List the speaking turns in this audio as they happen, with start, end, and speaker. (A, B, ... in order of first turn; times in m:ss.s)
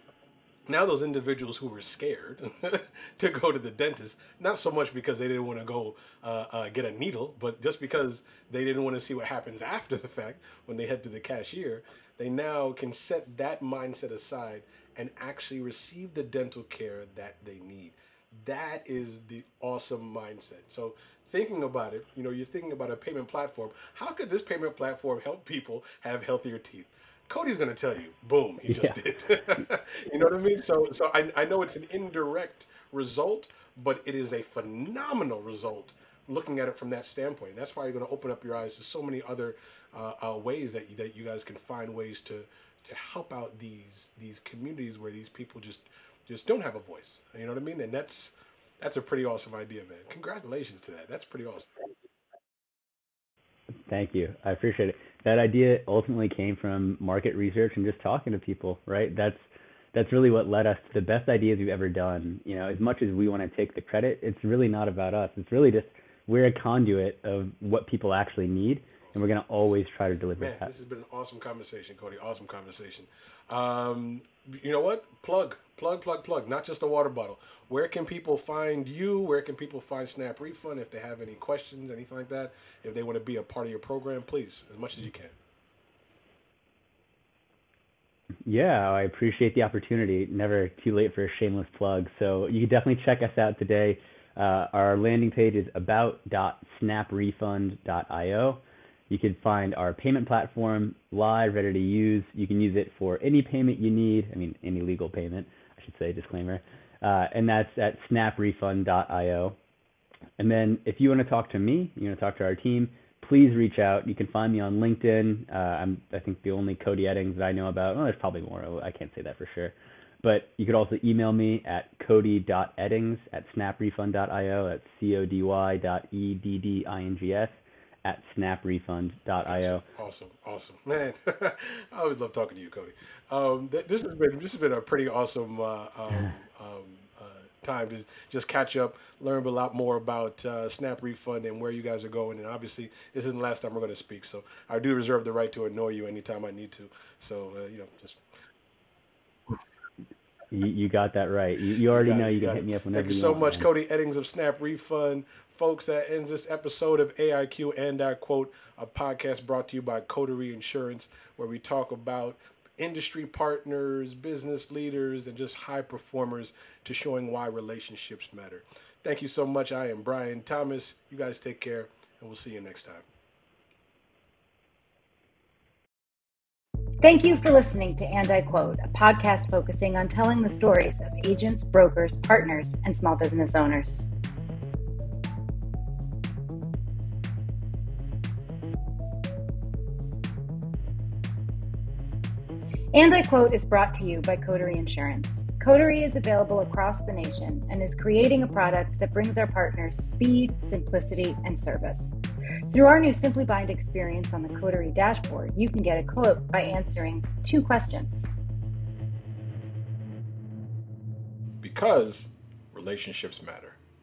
0:00.7-0:51.7 A
0:28.7-0:29.0 B
0:53.9-1:10.7 B
1:09.0-1:09.7 A
1:10.4-1:25.4 A
1:28.5-1:49.6 B
1:50.4-2:09.8 B
2:09.4-2:28.2 A
2:30.5-2:33.7 B
2:31.9-2:53.0 A
2:57.0-3:04.1 C
3:12.9-3:22.2 C
3:22.7-3:28.3 C
3:31.6-3:33.8 A